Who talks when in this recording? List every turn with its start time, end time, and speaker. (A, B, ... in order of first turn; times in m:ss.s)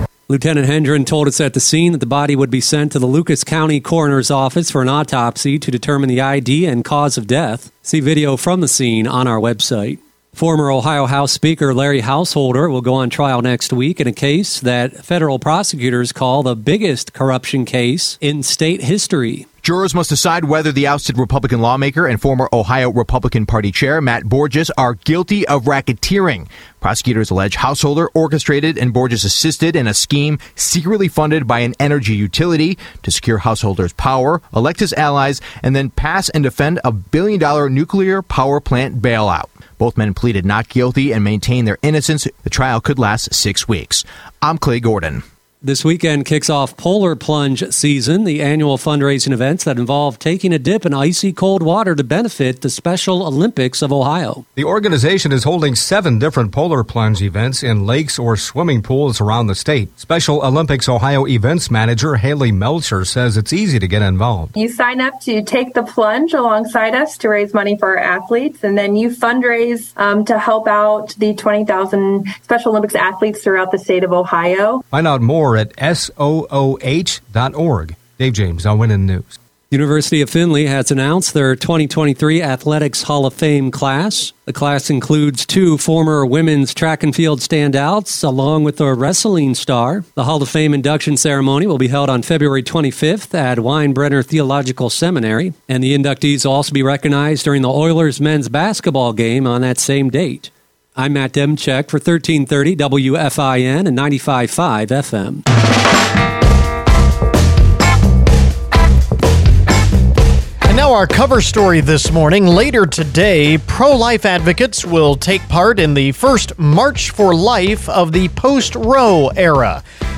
0:00.3-0:19.4 A
0:19.6-0:45.2 B
0:45.6-0:54.4 A
0:54.6-1:04.5 C
1:04.6-1:14.8 D
1:14.9-1:19.4 C
1:19.7-1:45.4 A
1:50.6-1:59.8 E